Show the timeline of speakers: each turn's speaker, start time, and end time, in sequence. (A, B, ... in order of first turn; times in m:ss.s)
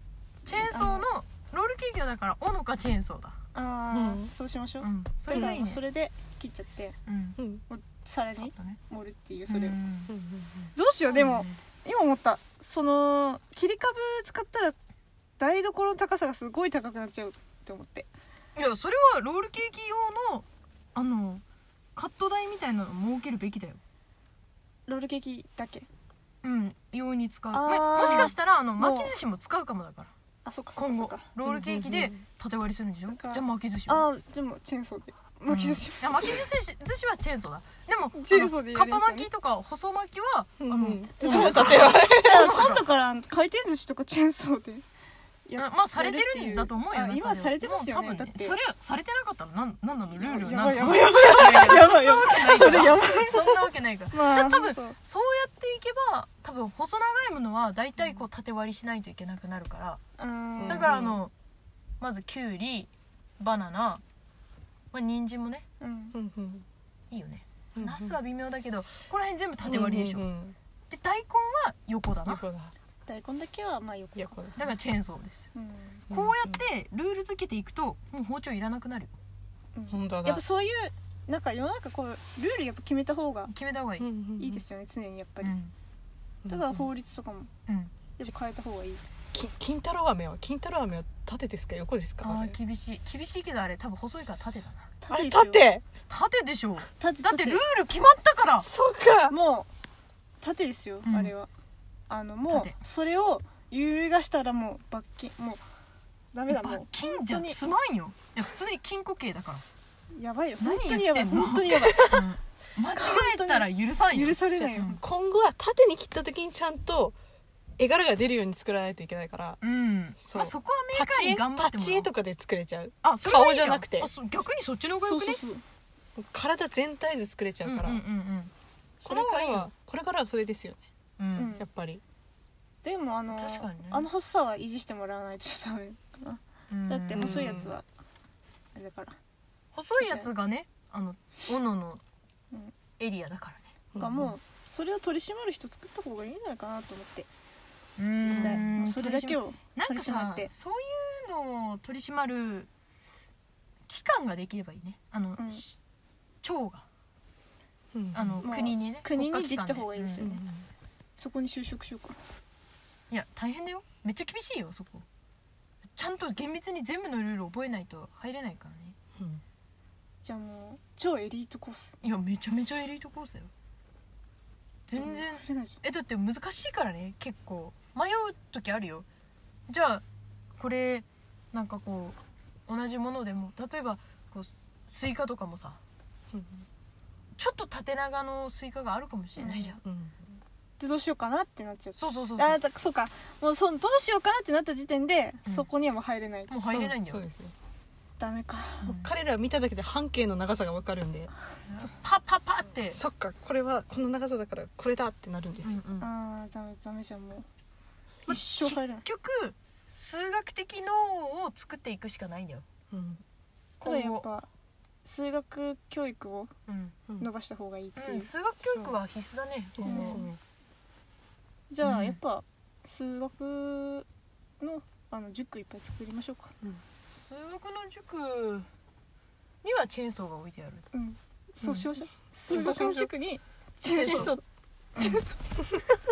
0:00.5-0:03.4 A
0:00.5-0:01.1 B
0:03.5-0:07.0 B
0:03.9-0:04.3 C
0:04.8-0:05.8 A
0:07.1-0:07.4 A
0:07.4-0:07.6 C
0:07.7-0:09.8 B
0:08.3-0:08.8 A
0:09.5-0:10.1 A
0:10.1-0:10.7 C
0:10.8-0:14.8 B
0:11.1-0:11.6 A
0:15.4-0:18.1 B
0:18.6-0:21.4 A
0:22.0-0:23.8 A
0:24.9-0:25.9 B
0:26.4-0:30.1 A
0:27.5-0:29.2 B
0:30.4-0:31.3 B
0:30.8-0:34.1 A
0:31.5-0:32.2 C
0:33.1-0:36.4 B
0:35.5-0:42.9 A
0:38.1-0:39.3 B
0:40.6-0:42.5 C
0:41.2-0:44.8 B
0:45.5-0:48.6 B
0:45.6-1:00.0 A
0:50.1-0:55.0 B
1:00.2-1:01.0 B
1:00.6-1:01.2 C
1:00.7-1:01.3 A
1:02.0-1:04.0 A
1:04.9-1:05.6 A
1:05.8-1:06.2 B
1:06.1-1:06.7 C
1:07.1-1:10.2 A
1:07.8-1:08.2 C
1:09.6-1:10.6 C
1:10.9-1:12.4 A
1:12.3-1:12.7 C
1:13.1-1:14.4 B
1:14.2-1:14.8 C
1:14.6-1:15.5 A
1:15.6-1:16.0 B
1:16.1-1:16.6 C
1:16.1-1:19.1 A
1:19.8-1:23.5 B
1:19.9-1:20.4 C
1:23.5-1:24.1 A
1:24.0-1:24.6 C
1:24.4-1:25.5 B
1:25.4-1:25.7 A
1:26.5-1:26.8 C
1:26.5-1:27.5 B
1:27.7-1:27.9 A
1:28.2-1:29.0 B
1:29.3-1:32.6 C
1:32.2-1:34.9 A
1:35.0-1:35.7 B
1:35.1-1:35.8 C
1:36.1-1:38.7 A
1:37.0-1:37.6 B
1:38.6-1:39.4 C
1:39.3-1:39.7 B
1:40.4-1:41.5 B
1:41.1-1:41.3 A
1:42.1-1:45.6 B
1:42.5-1:42.8 A
1:46.3-1:47.6 B
1:46.5-1:49.6 A
1:50.1-1:52.1 B
1:50.6-1:55.0 A
1:51.8-1:52.3 C
1:52.9-1:55.0 B
1:54.5-1:57.2 C
1:57.8-1:59.6 C
1:59.6-2:02.1 A
2:00.2-2:04.1 C
2:03.0-2:05.4 A
2:05.0-2:05.6 B
2:06.2-2:08.0 C
2:07.6-2:09.7 A
2:09.0-2:10.8 C
2:11.2-2:11.6 A
2:11.4-2:11.7 B
2:11.6-2:12.0 C
2:12.8-2:17.8 B
2:13.3-2:14.1 A
2:16.7-2:17.7 A
2:17.2-2:17.7 C
2:18.8-2:19.2 B
2:19.8-2:22.0 A
2:20.0-2:20.3 B
2:23.0-2:23.8 A
2:23.9-2:24.3 C
2:24.0-2:27.3 B
2:28.0-2:32.7 A
2:28.2-2:30.5 B
2:28.3-2:28.7 C
2:33.9-2:35.8 A
2:35.4-2:35.6 B
2:36.4-2:36.8 A
2:37.9-2:38.5 C
2:38.1-2:40.2 A
2:38.4-2:40.4 B
2:40.2-2:40.7 C
2:41.2-2:42.2 B
2:43.1-2:45.0 A
2:45.9-2:49.0 A
2:50.2-2:52.0 B
2:52.0-2:53.5 A
2:54.9-2:59.1 A
2:54.9-2:55.8 B
2:59.7-3:00.0 A
3:00.6-3:02.2 A
3:02.7-3:05.8 A
3:06.3-3:06.7 C
3:07.4-3:09.8 A
3:09.4-3:09.8 B
3:09.8-3:10.3 C
3:10.8-3:16.9 B
3:12.0-3:12.6 A
3:16.5-3:17.3 A
3:16.7-3:17.5 C
3:18.2-3:19.0 B
3:18.8-3:19.1 A
3:18.9-3:21.3 C
3:21.7-3:23.0 A
3:22.9-3:25.8 C
3:25.6-3:26.1 A
3:26.0-3:27.5 B
3:28.3-3:29.0 B
3:28.3-3:32.6 A
3:32.9-3:33.2 C
3:33.8-3:34.3 A
3:33.8-3:34.5 B
3:35.0-3:36.5 B
3:36.7-3:37.0 A
3:37.2-3:38.3 B
3:38.0-3:40.4 A
3:38.6-3:39.0 C
3:39.8-3:40.4 C
3:39.8-3:40.2 B
3:41.7-3:44.1 B
3:41.8-3:42.2 A
3:44.6-3:46.5 B
3:47.1-3:48.7 A
3:49.6-3:50.9 A
3:50.9-3:54.4 B
3:52.5-3:52.8 A
3:52.5-3:53.1 C
3:53.9-3:54.4 A
3:54.0-3:54.4 C
3:55.0-3:55.4 B